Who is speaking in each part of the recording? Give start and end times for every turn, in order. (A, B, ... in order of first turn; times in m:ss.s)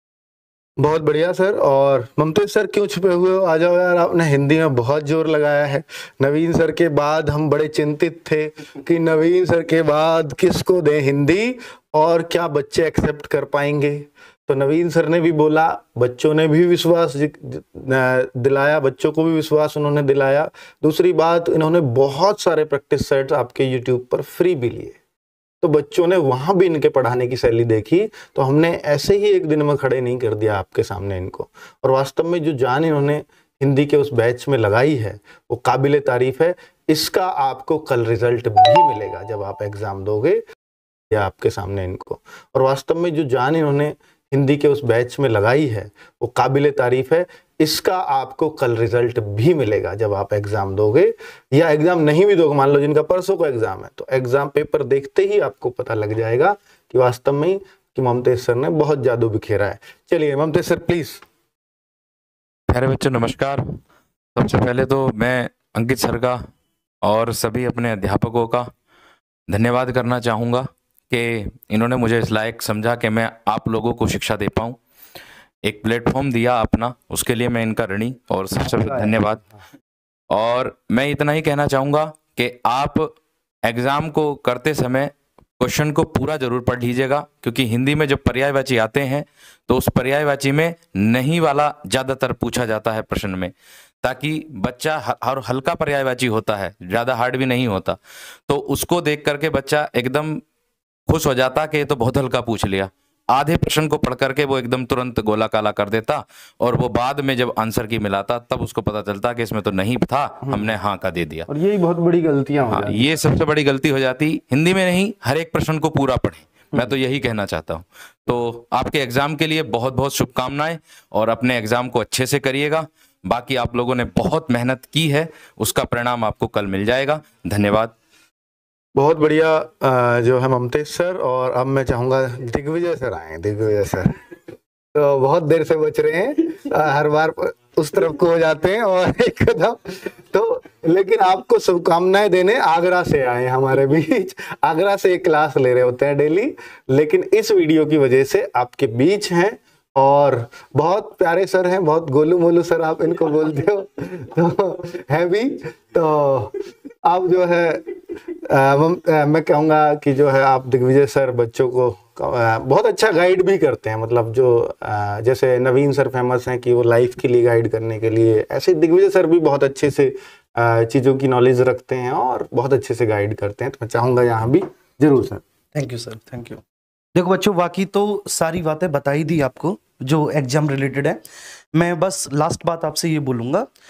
0:00.8-0:25.0 A
0:25.6-0:40.4 A
0:41.1-1:01.2 A
1:02.7-1:03.8 B
1:04.3-1:06.5 B
1:07.0-1:08.7 B
1:09.5-1:14.8 B
1:15.6-1:19.4 B
1:18.7-1:19.1 A
1:20.3-1:23.1 B
1:23.6-1:33.5 B
1:34.0-1:40.4 B
1:41.1-1:51.5 B
1:51.5-1:53.2 A
1:52.7-2:07.9 B
2:08.9-2:14.2 A
2:14.9-2:55.4 A
2:55.7-2:56.6 C
2:57.2-3:01.2 C
3:01.7-3:03.7 C